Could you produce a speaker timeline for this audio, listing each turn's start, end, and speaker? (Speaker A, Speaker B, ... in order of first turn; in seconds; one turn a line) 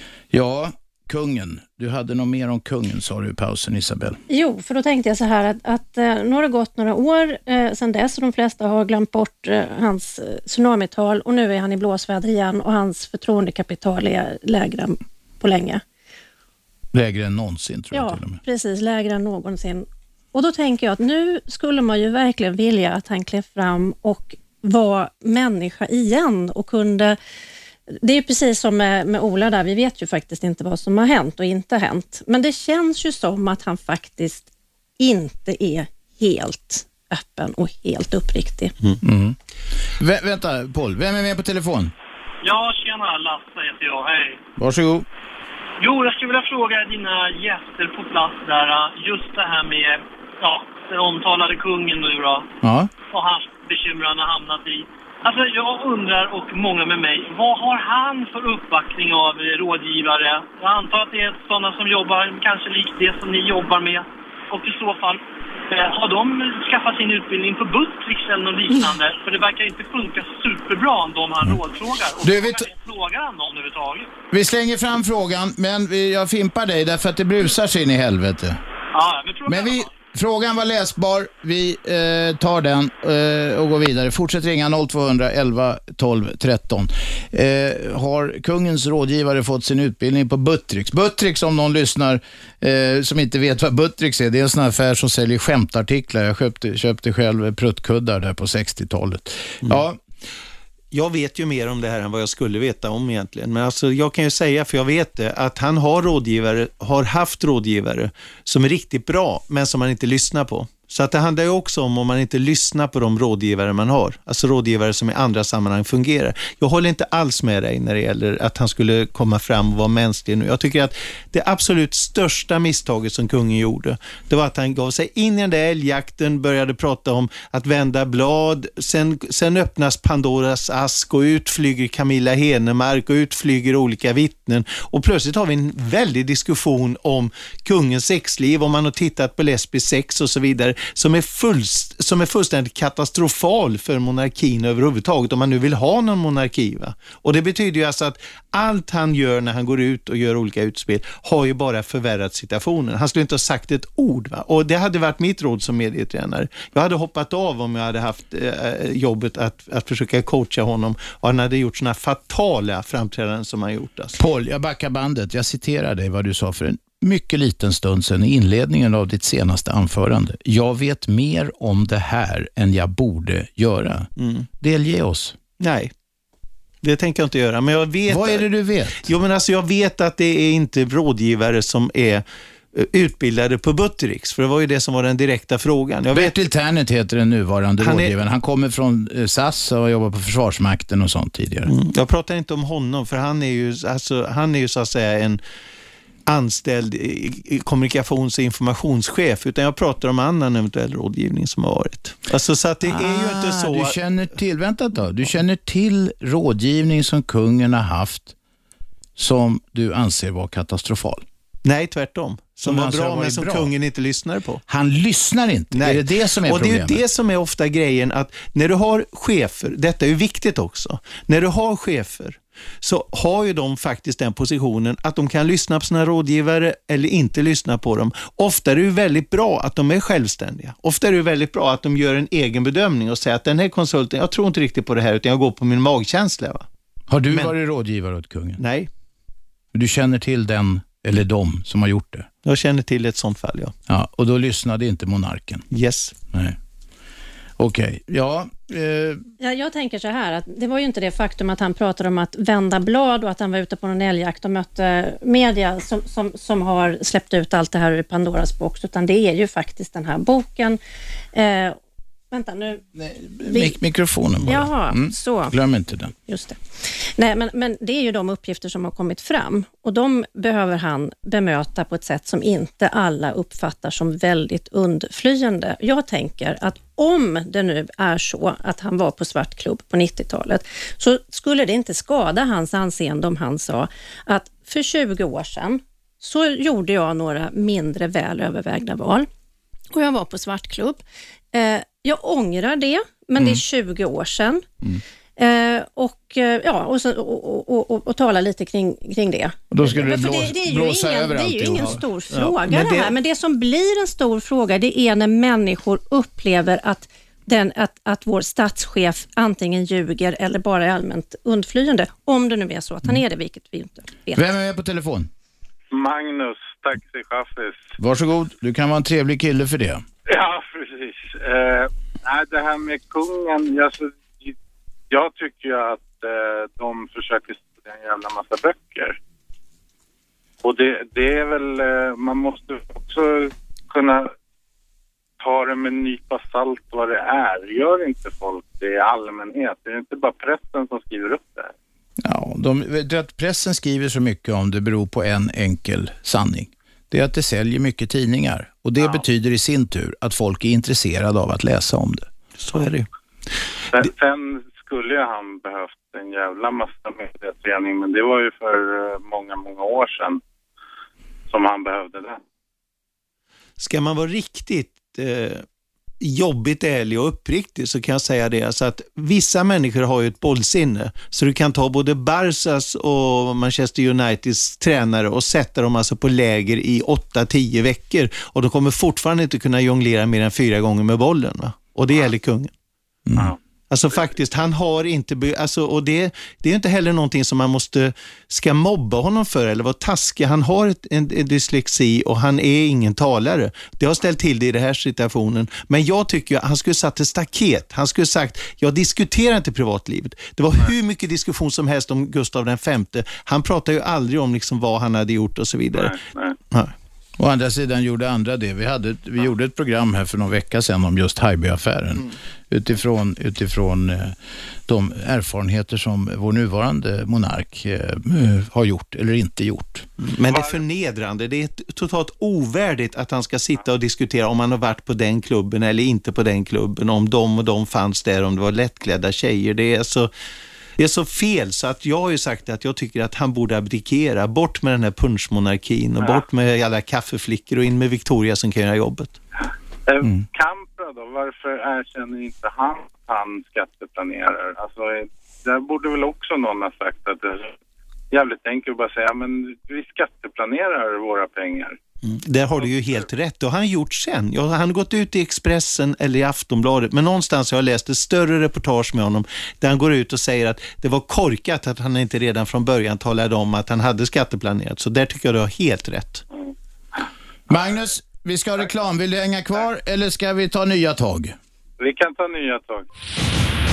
Speaker A: 0.3-4.2
Speaker B: 4.3-15.8
Speaker A: 16.9-18.4
Speaker B: 17.9-27.2
Speaker B: 27.9-34.5
Speaker B: 35.0-38.7
Speaker A: 39.0-39.4
Speaker A: 40.0-41.9
Speaker C: 42.4-44.4
Speaker A: 44.6-45.0
Speaker C: 45.8-52.5
Speaker A: 52.6-52.9
Speaker C: 53.1-74.1
Speaker A: 72.2-72.7
Speaker A: 74.3-78.6
Speaker C: 78.9-79.9
Speaker A: 79.5-100.0
Speaker D: 100.9-164.2
Speaker A: 164.2-175.4
Speaker D: 174.2-174.4
Speaker D: 175.6-175.9
Speaker D: 176.8-178.4
Speaker A: 178.1-179.1
Speaker D: 179.0-186.3
Speaker A: 186.1-191.7
Speaker D: 187.8-188.1
Speaker D: 191.7-195.4
Speaker D: 196.3-204.0
Speaker A: 202.8-208.3
Speaker A: 209.2-211.2
Speaker D: 211.6-214.6
Speaker A: 212.6-213.7
Speaker A: 214.7-217.0
Speaker D: 215.7-236.7
Speaker A: 237.1-238.6
Speaker D: 238.6-238.9
Speaker A: 239.7-242.3
Speaker D: 242.4-243.7
Speaker A: 243.9-245.7
Speaker D: 245.7-246.1
Speaker A: 247.6-249.2
Speaker B: 249.4-260.8
Speaker B: 261.3-261.8
Speaker B: 262.3-262.8
Speaker A: 262.9-266.1
Speaker B: 263.4-263.8
Speaker B: 264.4-265.5
Speaker B: 266.3-289.3
Speaker B: 289.9-291.0
Speaker B: 291.5-294.6
Speaker B: 295.4-314.4
Speaker A: 299.7-302.0
Speaker D: 302.3-303.1
Speaker A: 314.3-315.3
Speaker E: 315.9-317.9
Speaker A: 318.0-320.0
Speaker E: 320.3-324.6
Speaker E: 325.1-329.2
Speaker E: 330.6-334.3
Speaker E: 335.4-341.7
Speaker A: 342.2-352.3
Speaker D: 352.6-353.1
Speaker E: 353.9-360.4
Speaker E: 361.5-362.4
Speaker D: 363.8-365.6
Speaker D: 366.2-382.7
Speaker A: 383.3-383.5
Speaker D: 383.9-406.1
Speaker E: 405.9-406.5
Speaker A: 407.4-414.4
Speaker A: 414.9-420.1
Speaker D: 420.2-430.3
Speaker E: 420.5-420.8
Speaker D: 431.0-439.3
Speaker E: 440.1-447.7
Speaker E: 448.3-452.0
Speaker D: 452.2-466.4
Speaker A: 467.7-471.5
Speaker E: 472.0-473.1